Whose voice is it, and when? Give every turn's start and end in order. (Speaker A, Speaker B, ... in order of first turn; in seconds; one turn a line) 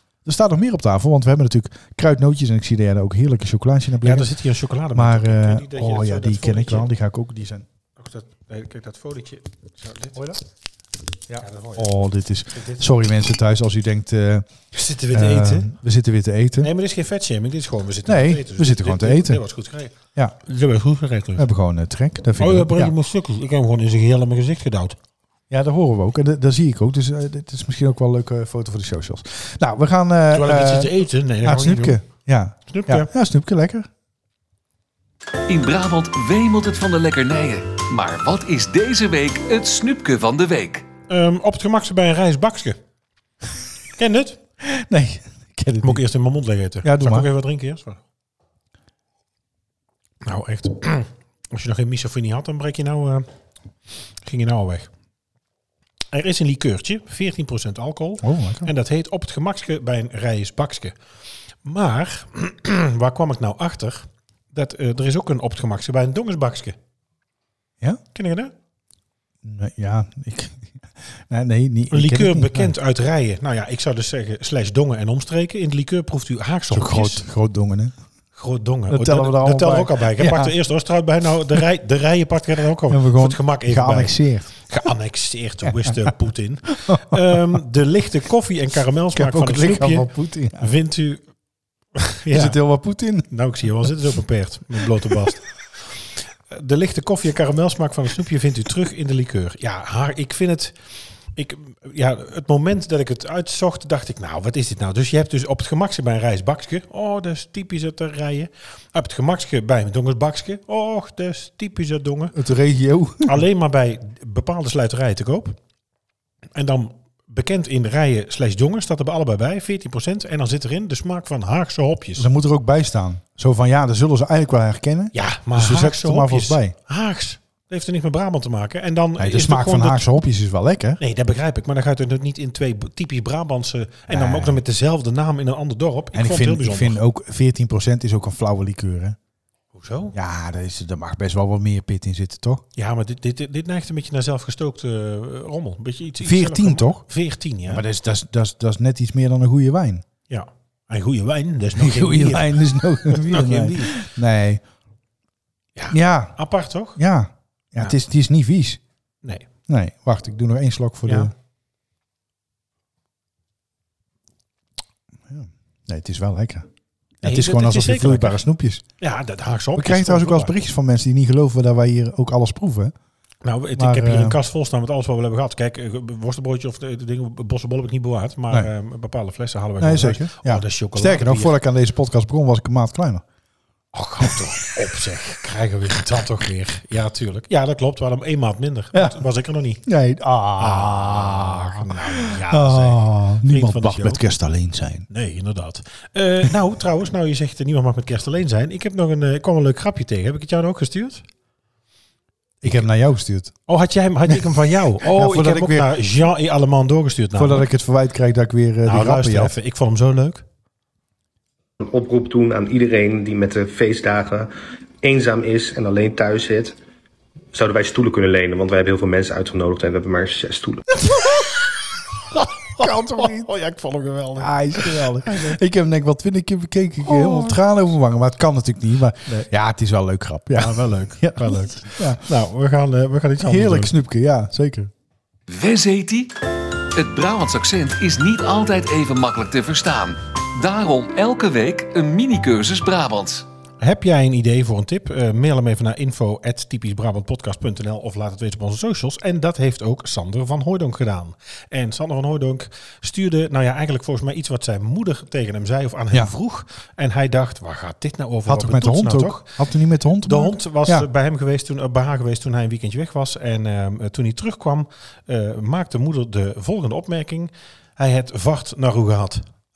Speaker A: 0.2-4.3
Speaker B: 4.0-6.9
Speaker A: 4.9-7.7
Speaker B: 8.0-10.2
Speaker A: 11.3-14.5
Speaker B: 11.4-12.0
Speaker B: 12.5-12.8
Speaker B: 14.7-15.7
Speaker A: 15.1-16.7
Speaker B: 16.6-21.5
Speaker A: 18.1-19.4
Speaker A: 21.4-22.9
Speaker B: 22.4-25.0
Speaker A: 25.5-33.9
Speaker B: 30.3-32.0
Speaker B: 32.7-33.1
Speaker C: 35.5-40.9
Speaker B: 41.1-42.8
Speaker B: 44.0-44.4
Speaker A: 44.6-46.0
Speaker B: 45.8-48.0
Speaker A: 46.8-47.3
Speaker B: 50.2-53.3
Speaker B: 54.2-54.9
Speaker B: 56.1-61.0
Speaker A: 58.2-58.7
Speaker B: 61.6-66.8
Speaker B: 68.1-68.5
Speaker A: 69.4-72.7
Speaker B: 71.9-77.2
Speaker A: 76.7-78.0
Speaker B: 78.3-91.2
Speaker A: 78.9-80.5
Speaker A: 82.9-84.6
Speaker A: 85.8-86.1
Speaker A: 86.8-87.4
Speaker A: 89.2-90.7
Speaker B: 92.0-92.6
Speaker A: 92.3-93.3
Speaker B: 93.3-95.5
Speaker B: 96.5-100.8
Speaker B: 101.3-112.4
Speaker A: 112.3-113.4
Speaker B: 113.2-115.6
Speaker B: 116.5-122.3
Speaker A: 122.2-126.8
Speaker B: 125.1-130.1
Speaker A: 129.2-131.0
Speaker B: 131.0-137.0
Speaker A: 134.1-134.6
Speaker A: 136.1-139.2
Speaker B: 139.7-140.2
Speaker A: 140.1-142.6
Speaker B: 142.8-147.8
Speaker A: 146.2-147.0
Speaker A: 147.7-150.0
Speaker B: 150.3-154.1
Speaker A: 151.8-154.6
Speaker B: 155.8-157.0
Speaker A: 155.9-156.4
Speaker A: 157.0-158.8
Speaker A: 159.7-161.3
Speaker B: 161.1-161.3
Speaker A: 165.3-166.7
Speaker A: 167.2-168.8
Speaker B: 167.2-168.4
Speaker B: 169.0-170.5
Speaker A: 169.8-172.9
Speaker B: 173.4-181.5
Speaker A: 173.8-174.4
Speaker A: 179.8-183.2
Speaker B: 183.9-189.8
Speaker A: 188.9-189.2
Speaker A: 189.8-195.1
Speaker B: 190.6-194.2
Speaker B: 195.1-201.2
Speaker A: 202.6-203.6
Speaker B: 203.7-207.7
Speaker A: 205.0-205.9
Speaker A: 207.4-209.5
Speaker B: 208.8-210.4
Speaker D: 211.8-214.5
Speaker D: 215.0-216.8
Speaker D: 217.5-220.8
Speaker B: 221.0-221.7
Speaker B: 222.2-225.6
Speaker A: 222.8-223.5
Speaker A: 224.4-232.2
Speaker B: 227.1-227.6
Speaker B: 230.5-233.9
Speaker A: 233.4-234.9
Speaker C: 235.5-236.3
Speaker C: 236.9-243.5
Speaker B: 243.8-259.6
Speaker A: 258.5-261.1
Speaker B: 260.3-269.4